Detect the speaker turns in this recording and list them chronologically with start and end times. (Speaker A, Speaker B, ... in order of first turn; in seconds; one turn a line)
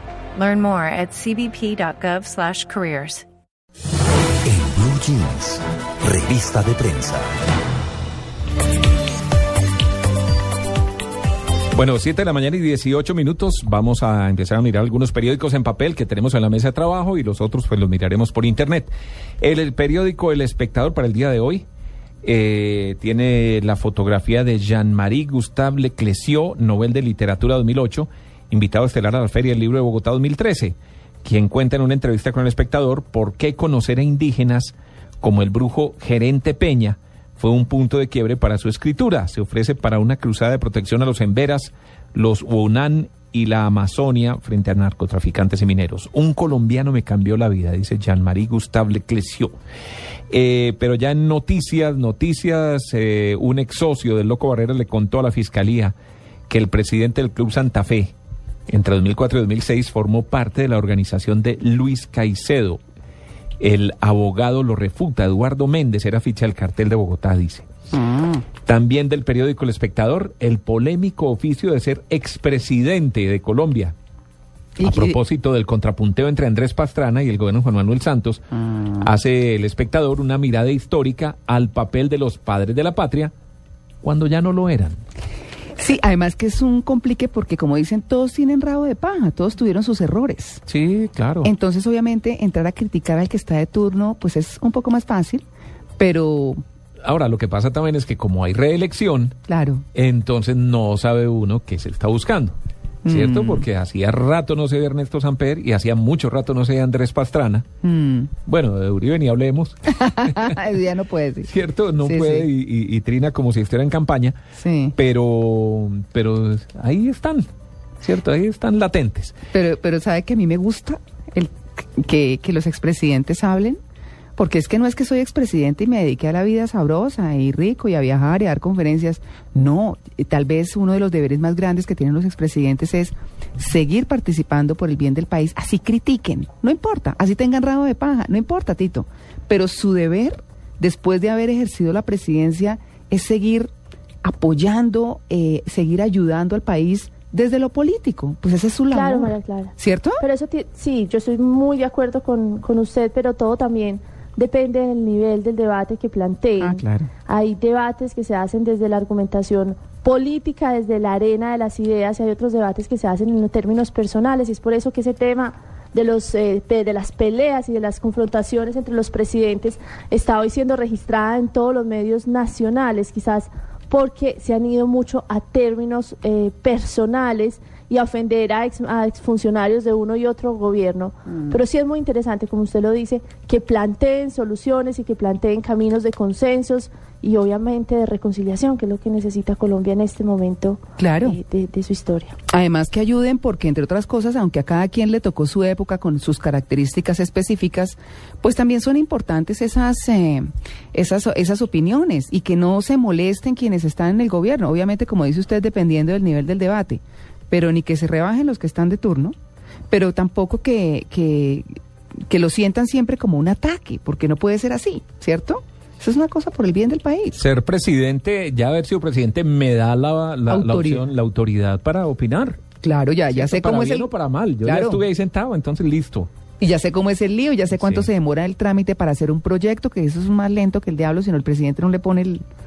Speaker A: 0.3-3.2
Speaker B: 4.4-7.2
Speaker C: 11.7-21.6
Speaker C: 22.2-49.5
Speaker C: 50.3-55.9
Speaker C: 56.5-58.1
Speaker C: 58.7-62.8
Speaker C: 63.6-67.7
Speaker D: 67.9-68.4
Speaker C: 68.7-73.9
Speaker D: 74.8-75.2
Speaker C: 74.8-78.4
Speaker D: 78.7-79.0
Speaker C: 79.0-83.3
Speaker C: 84.0-85.0
Speaker D: 85.8-90.6
Speaker C: 90.7-91.5
Speaker D: 91.4-95.4
Speaker D: 96.0-96.6
Speaker C: 97.0-99.4
Speaker D: 99.5-99.8
Speaker C: 99.9-102.5
Speaker D: 103.0-103.7
Speaker C: 103.1-107.7
Speaker D: 107.8-108.3
Speaker C: 108.5-110.5
Speaker D: 109.9-111.5
Speaker C: 111.5-114.4
Speaker D: 112.0-112.5
Speaker D: 114.6-115.0
Speaker C: 115.0-117.5
Speaker C: 118.0-119.3
Speaker D: 119.5-123.8
Speaker D: 124.4-143.7
Speaker D: 144.2-150.2
Speaker E: 148.9-192.4
Speaker D: 156.6-157.1
Speaker D: 191.0-191.4
Speaker D: 192.5-209.3
Speaker D: 209.9-211.7
Speaker D: 212.3-217.4
Speaker C: 217.4-222.6
Speaker D: 220.5-221.1
Speaker D: 222.8-224.1
Speaker C: 223.3-226.3
Speaker D: 224.6-225.0
Speaker D: 226.6-232.4
Speaker C: 227.7-228.1